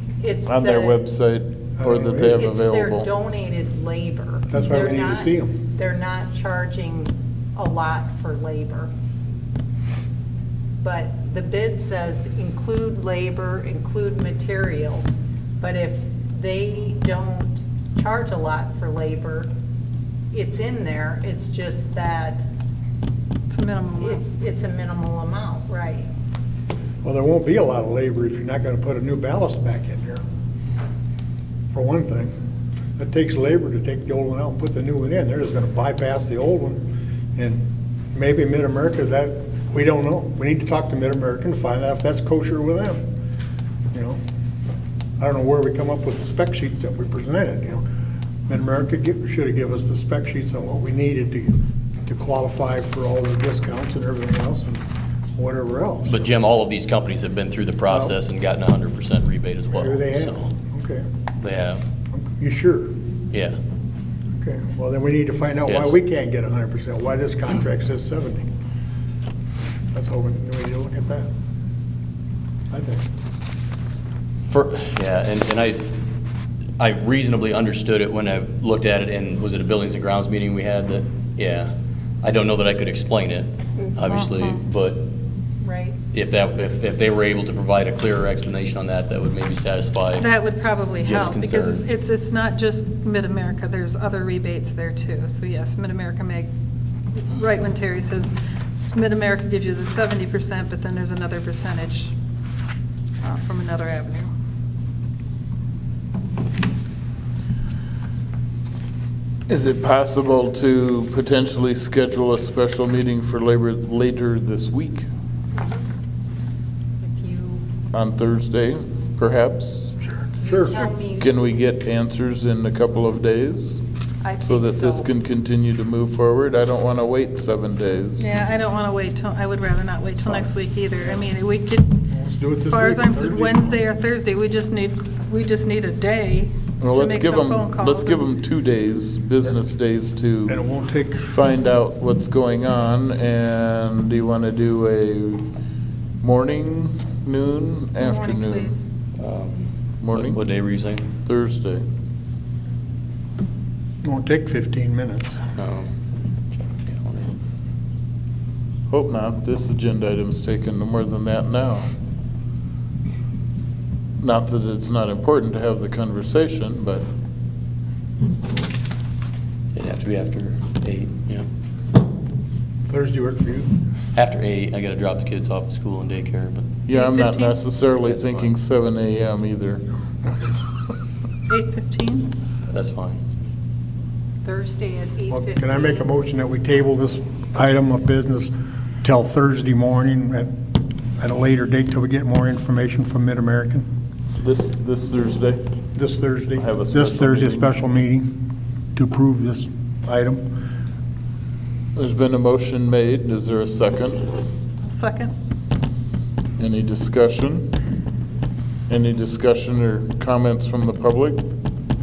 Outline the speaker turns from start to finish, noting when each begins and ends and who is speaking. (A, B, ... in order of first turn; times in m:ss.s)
0:00.2-0:01.0 A
0:00.4-0:03.1 B
0:01.8-0:02.4 C
0:02.3-0:08.9 A
0:04.5-0:05.5 C
0:10.8-0:19.5 A
0:20.3-0:22.4 A
0:23.5-0:24.2 D
0:24.0-0:26.1 A
0:27.0-0:30.2 C
0:31.7-0:32.3 C
0:33.0-0:43.0 C
0:43.9-0:44.2 C
0:45.2-0:47.8 C
0:48.5-0:56.3 C
0:56.1-1:00.5 E
0:57.9-0:58.1 C
0:59.7-1:01.1 C
1:01.4-1:01.8 E
1:02.1-1:03.0 C
1:03.3-1:03.6 E
1:04.4-1:08.5 C
1:05.6-1:05.9 E
1:09.9-1:11.3 C
1:12.7-1:13.0 C
1:14.5-1:16.0 E
1:16.8-1:21.7 E
1:22.2-1:25.1 E
1:24.2-1:24.6 D
1:25.6-1:26.0 A
1:26.1-1:30.3 E
1:30.2-1:36.5 D
1:31.0-1:31.9 E
1:37.1-1:38.3 D
1:38.9-1:42.1 D
1:43.2-1:44.3 D
1:49.5-1:55.1 B
1:57.0-1:57.6 A
1:57.9-1:59.9 B
2:00.0-2:00.8 C
2:00.4-2:01.4 A
2:01.2-2:03.8 B
2:04.2-2:05.1 A
2:04.4-2:08.3 B
2:08.2-2:11.9 D
2:12.1-2:13.8 C
2:12.6-2:18.2 D
2:16.8-2:20.6 B
2:20.5-2:21.3 C
2:21.2-2:25.5 B
2:26.2-2:28.8 B
2:28.0-2:28.9 D
2:29.2-2:31.1 E
2:30.0-2:30.4 B
2:31.2-2:31.8 B
2:34.0-2:35.5 C
2:35.6-2:35.9 E
2:36.6-2:37.4 E
2:38.9-2:41.9 B
2:44.2-2:47.1 B
2:49.7-2:51.5 E
2:52.9-2:53.7 C
2:54.1-2:56.7 E
2:56.9-2:59.8 B
2:56.9-2:57.6 D
2:58.0-2:58.5 E
3:01.5-3:02.3 D
3:02.7-3:03.2 E
3:04.4-3:06.1 A
3:05.3-3:10.6 C
3:11.2-3:13.9 C
3:14.4-3:15.6 B
3:16.0-3:20.4 C
3:16.6-3:17.7 B
3:21.9-3:24.3 B
3:24.9-3:25.3 D
3:26.6-3:27.7 B
3:28.9-3:31.4 B